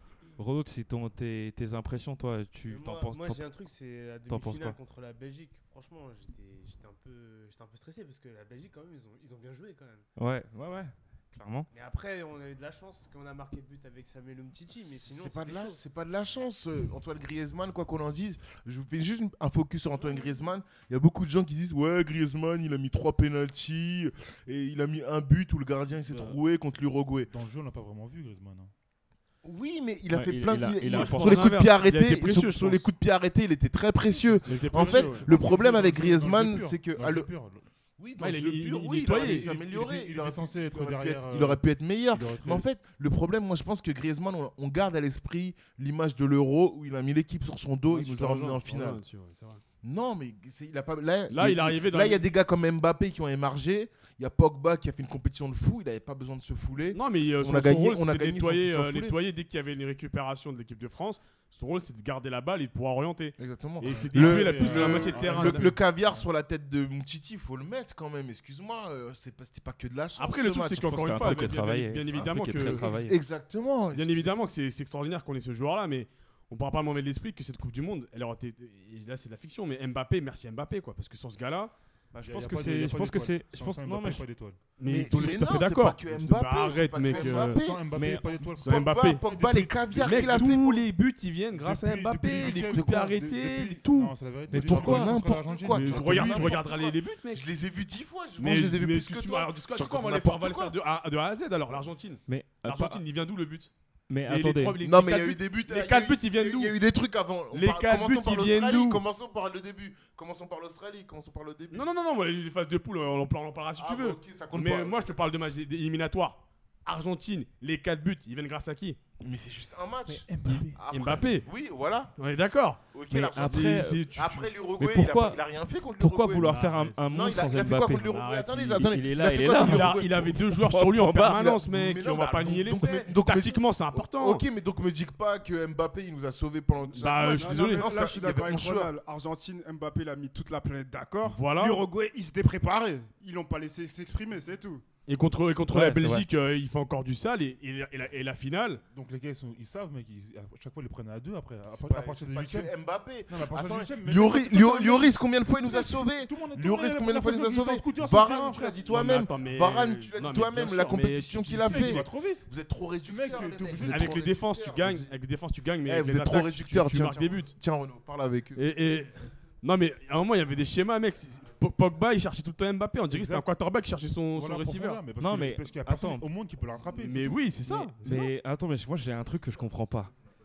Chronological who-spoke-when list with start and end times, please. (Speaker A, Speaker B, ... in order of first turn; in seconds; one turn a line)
Speaker A: 0.4-3.5
Speaker B: 2.6-10.1
Speaker A: 4.3-4.8
Speaker A: 10.2-11.7
Speaker B: 11.7-15.8
Speaker C: 14.7-27.3
Speaker D: 26.1-26.4
Speaker D: 27.3-28.7
Speaker C: 29.4-37.3
Speaker A: 30.1-31.7
Speaker E: 30.9-32.9
Speaker D: 34.1-37.7
Speaker E: 34.5-35.4
Speaker C: 38.0-49.0
Speaker E: 38.2-39.5
Speaker D: 39.1-42.7
Speaker E: 47.9-49.6
Speaker C: 49.8-59.2
Speaker E: 51.3-52.2
Speaker E: 56.9-65.7
Speaker C: 63.4-71.6
Speaker D: 63.8-66.2
Speaker E: 70.2-72.9
Speaker A: 70.9-73.2
Speaker C: 72.1-74.4
Speaker E: 73.9-81.7
Speaker A: 82.1-84.3
Speaker D: 82.2-84.6
Speaker E: 84.8-87.7
Speaker C: 84.8-87.8
Speaker D: 87.1-90.5
Speaker A: 87.9-88.4
Speaker E: 88.6-89.2
Speaker C: 88.6-90.8
Speaker E: 89.9-94.1
Speaker D: 91.5-96.6
Speaker A: 94.5-95.2
Speaker C: 94.5-100.8
Speaker E: 95.7-97.5
Speaker E: 98.4-103.7
Speaker A: 102.3-103.0
Speaker A: 104.1-104.8
Speaker E: 104.3-106.8
Speaker C: 104.8-111.8
Speaker E: 107.5-109.0
Speaker E: 111.7-119.0
Speaker C: 113.8-115.1
Speaker C: 119.2-122.1
Speaker A: 120.1-120.8
Speaker E: 120.5-121.5
Speaker E: 122.2-124.5
Speaker C: 122.9-130.4
Speaker A: 123.1-124.1
Speaker A: 124.8-125.4
Speaker A: 126.0-128.2
Speaker E: 126.4-127.0
Speaker E: 128.1-129.0
Speaker A: 128.8-131.5
Speaker E: 129.6-134.4
Speaker C: 131.2-138.9
Speaker E: 136.9-137.9
Speaker F: 137.2-144.8
Speaker E: 141.2-141.8
Speaker E: 145.1-148.8
Speaker A: 145.7-146.3
Speaker D: 148.9-152.7
Speaker C: 151.7-165.1
Speaker D: 153.3-158.9
Speaker E: 158.8-162.1
Speaker D: 161.5-162.4
Speaker D: 163.1-164.2
Speaker E: 163.7-167.5
Speaker C: 165.9-168.6
Speaker E: 168.6-175.0
Speaker D: 173.1-173.5
Speaker D: 174.3-177.8
Speaker A: 175.2-176.3
Speaker E: 176.9-178.3
Speaker A: 177.9-180.1